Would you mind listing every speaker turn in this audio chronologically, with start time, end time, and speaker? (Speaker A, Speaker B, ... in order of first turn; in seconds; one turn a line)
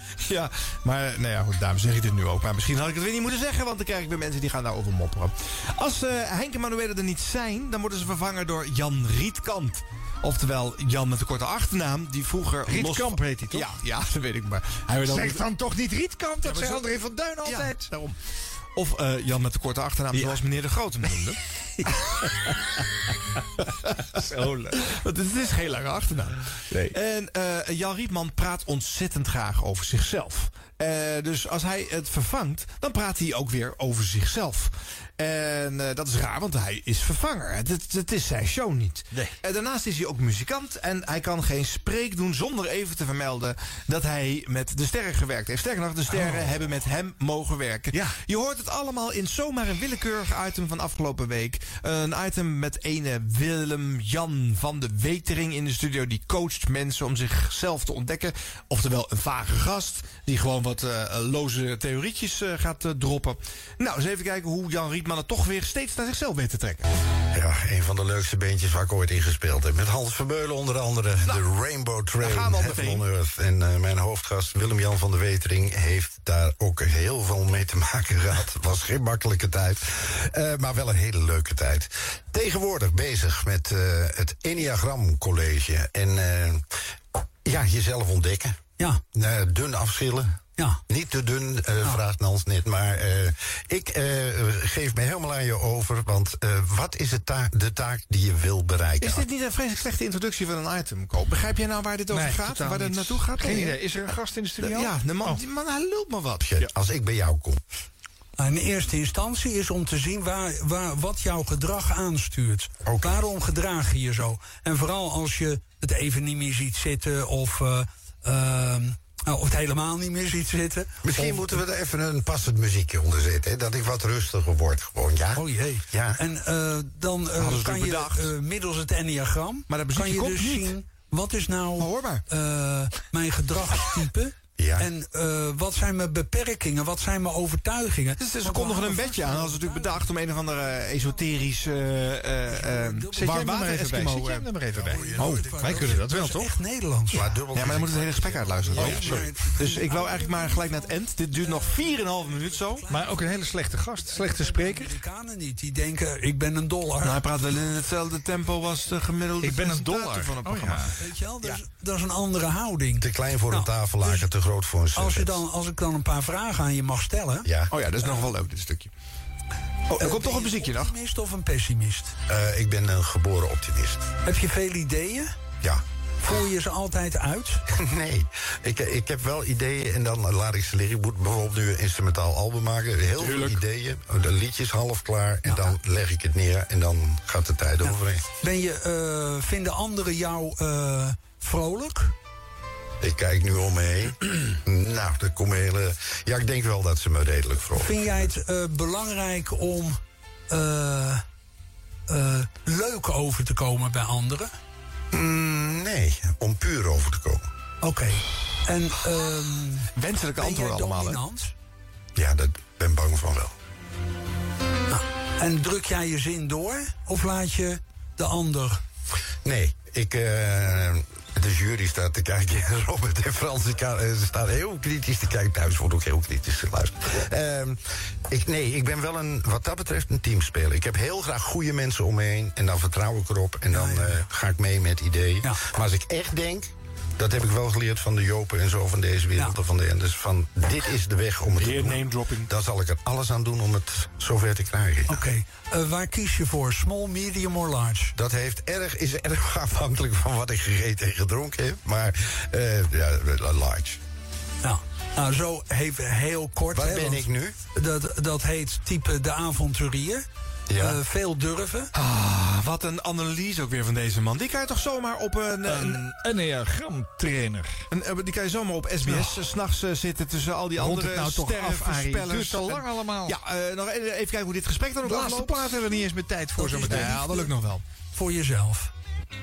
Speaker A: 0.2-15.5
Speaker B: 12.7-13.7
Speaker B: 15.0-17.9
Speaker A: 16.4-18.1
Speaker A: 18.7-21.4
Speaker B: 21.8-22.4
Speaker B: 23.9-24.8
Speaker A: 23.9-24.2
Speaker A: 24.7-66.9
Speaker B: 39.1-39.4
Speaker B: 46.1-46.5
Speaker B: 47.9-48.2
Speaker C: 67.3-86.6
Speaker A: 72.2-73.1
Speaker C: 87.4-88.5
Speaker C: 89.1-99.3
Speaker A: 99.0-103.8
Speaker B: 102.1-105.4
Speaker A: 104.6-106.5
Speaker C: 106.4-107.6
Speaker D: 108.4-121.6
Speaker C: 112.8-113.2
Speaker C: 121.0-126.2
Speaker D: 125.3-140.1
Speaker A: 127.3-128.3
Speaker A: 129.7-130.8
Speaker A: 131.8-132.2
Speaker C: 134.6-134.9
Speaker A: 138.2-144.5
Speaker D: 140.8-141.2
Speaker D: 142.4-143.6
Speaker B: 143.1-145.1
Speaker C: 144.7-145.9
Speaker D: 144.8-147.4
Speaker A: 145.1-145.6
Speaker B: 145.6-146.6
Speaker C: 147.1-149.6
Speaker A: 147.5-152.8
Speaker D: 148.7-157.2
Speaker B: 152.9-155.0
Speaker A: 157.0-161.0
Speaker B: 159.4-160.9
Speaker D: 161.0-164.3
Speaker C: 163.0-165.4
Speaker D: 164.9-167.5
Speaker C: 167.4-167.7
Speaker A: 167.7-168.9
Speaker A: 169.9-170.9
Speaker D: 170.0-172.1
Speaker C: 172.3-174.1
Speaker D: 174.2-175.3
Speaker D: 176.2-177.6
Speaker C: 177.7-188.2
Speaker A: 183.2-183.6
Speaker D: 185.4-185.7
Speaker D: 187.8-192.1
Speaker C: 193.0-198.3
Speaker D: 197.7-200.0
Speaker D: 200.5-201.2
Speaker D: 202.1-204.5
Speaker C: 205.1-207.4
Speaker D: 207.8-211.5
Speaker A: 209.9-211.2
Speaker C: 212.1-213.5
Speaker D: 214.9-218.8
Speaker C: 219.4-245.2
Speaker D: 233.7-234.1
Speaker A: 241.5-242.5
Speaker D: 245.1-248.1
Speaker C: 248.2-254.0
Speaker D: 254.6-261.9
Speaker C: 256.7-257.5
Speaker C: 260.7-261.0
Speaker A: 261.9-266.1
Speaker B: 265.6-267.8
Speaker A: 267.9-275.9
Speaker B: 269.0-269.4
Speaker B: 270.8-273.4
Speaker B: 275.0-277.5
Speaker D: 276.6-277.4
Speaker A: 276.6-277.8
Speaker D: 278.1-278.9